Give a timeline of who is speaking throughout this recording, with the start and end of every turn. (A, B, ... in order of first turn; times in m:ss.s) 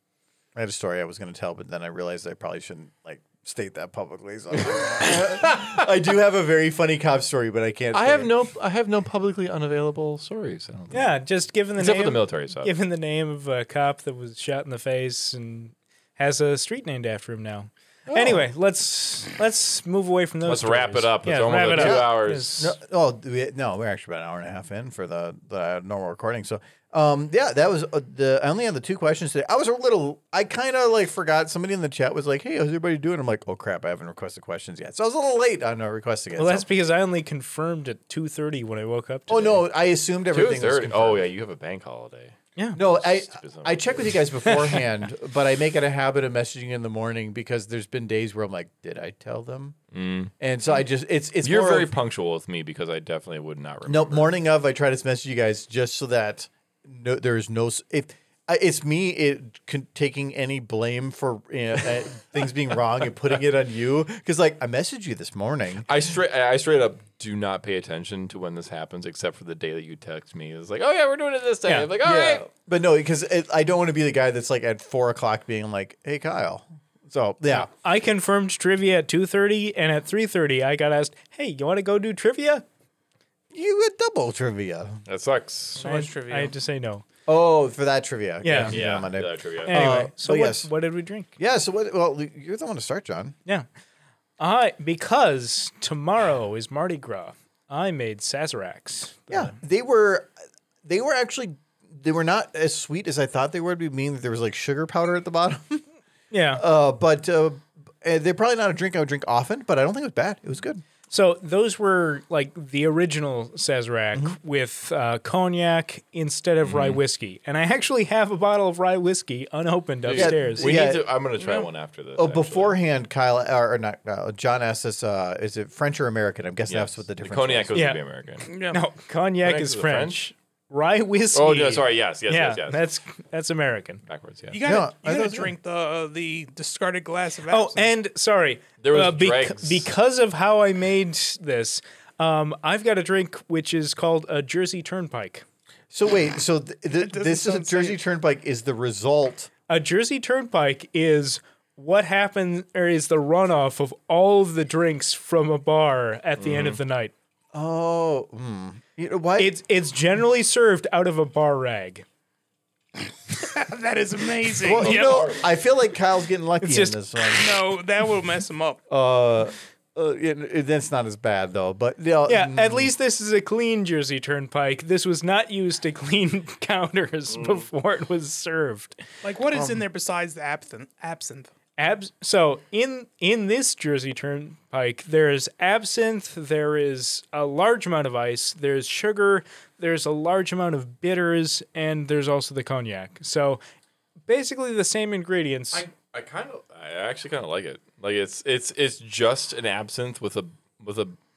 0:00.6-0:08.3 A
0:04.6-0:05.9 B
0:07.9-0:11.2 B
0:10.9-0:22.8 C
0:11.8-0:12.8 B
0:18.1-0:18.4 B
0:20.4-0:22.6 B
0:21.7-0:36.7 A
0:36.4-0:39.5 C
0:39.3-0:41.2 A
0:40.3-0:44.2 B
0:42.8-0:49.8 A
0:49.9-0:50.9 B
0:50.4-0:51.9 A
0:51.4-0:54.3 B
0:53.9-1:05.9 A
1:05.9-1:12.4 B
1:11.6-1:11.9 C
1:12.0-1:17.7 A
1:17.5-1:22.6 C
1:23.5-1:25.0 A
1:25.1-1:25.8 B
1:25.8-1:26.5 D
1:25.8-1:27.0 C
1:27.3-1:30.7 A
1:28.4-1:28.8 C
1:28.6-1:29.8 B
1:29.7-1:31.3 C
1:31.4-1:33.4 A
1:34.4-1:39.6 C
1:39.3-1:40.3 A
1:40.8-1:45.8 A
1:46.3-1:46.6 C
1:46.6-1:50.8 A
1:51.1-2:00.7 C
1:56.6-1:57.0 B
2:00.0-2:02.8 B
2:00.2-2:01.1 A
2:01.4-2:01.7 D
2:02.2-2:07.8 A
2:06.7-2:08.5 B
2:07.7-2:08.0 C
2:08.5-2:08.8 D
2:08.7-2:14.0 C
2:09.4-2:10.2 B
2:11.3-2:12.8 B
2:14.1-2:14.6 B
2:14.5-2:17.9 D
2:14.6-2:15.5 A
2:17.5-2:25.4 C
2:18.8-2:19.9 B
2:25.9-2:29.5 A
2:27.0-2:28.0 D
2:29.7-2:37.1 C
2:36.4-2:36.8 B
2:37.5-2:39.6 A
2:39.4-2:42.0 C
2:43.4-2:45.3 D
2:44.6-2:47.5 A
2:44.6-2:45.5 B
2:46.6-2:47.4 C
2:47.4-2:48.8 D
2:48.9-2:52.9 A
2:52.3-2:59.0 C
2:59.2-3:01.5 D
2:59.6-2:59.8 A
3:01.8-3:13.6 C
3:14.3-3:15.9 C
3:15.7-3:21.2 B